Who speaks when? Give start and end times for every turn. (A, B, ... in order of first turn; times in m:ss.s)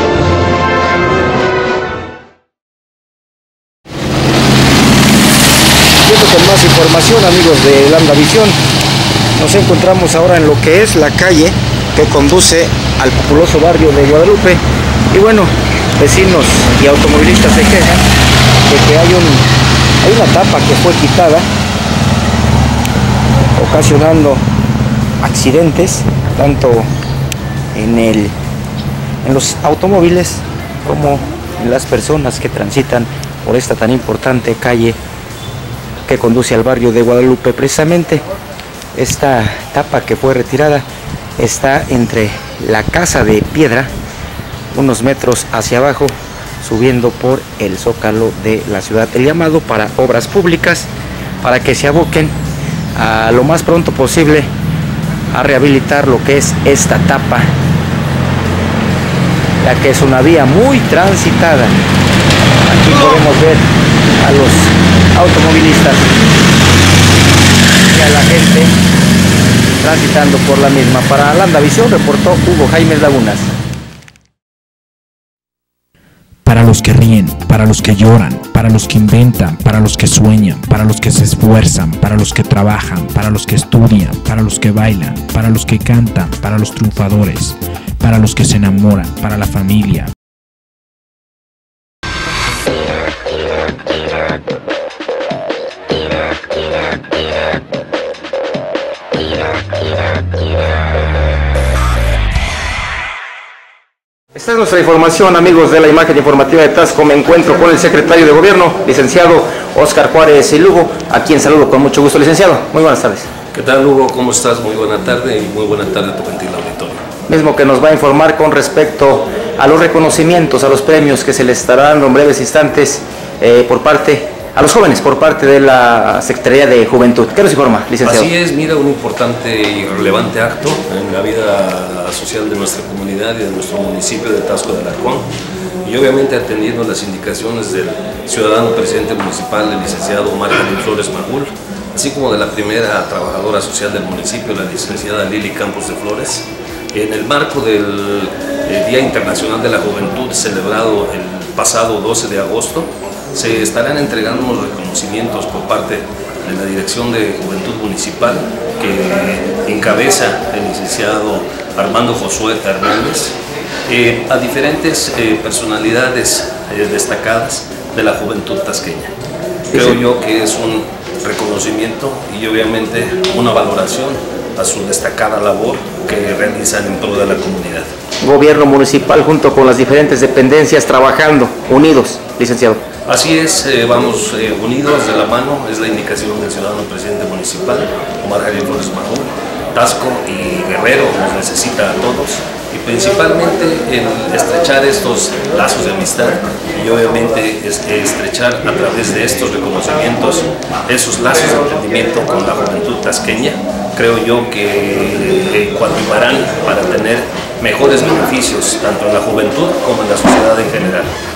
0:06.0-0:08.6 A
0:09.4-0:18.0 A
0:18.6-0:19.4 A
0:20.0-0:21.5 A
0:23.6-0:24.4 A
0:25.2-0:26.9 A
0:27.7-0:28.3 A
0:29.2-0:35.0 A
0:36.0-0:38.2 A
0:38.9-0:40.9 A
0:41.4-0:43.9 A
0:44.7-0:50.9 A
0:51.4-0:52.3 A
0:53.0-0:54.5 A
0:55.3-0:57.5 A
0:59.6-1:01.8 A
1:02.6-1:03.6 A
1:04.2-1:06.1 A
1:07.9-1:08.7 A
1:09.8-1:13.5 A
1:16.4-1:30.1 B
1:44.3-1:53.3 A
1:53.5-1:57.0 C
1:57.3-2:08.3 A
2:08.0-2:15.3 C
2:15.8-2:43.3 C
2:43.9-2:49.1 C
2:49.7-2:50.0 A
2:49.7-2:57.9 C
2:58.2-3:02.8 A
3:03.0-3:31.1 C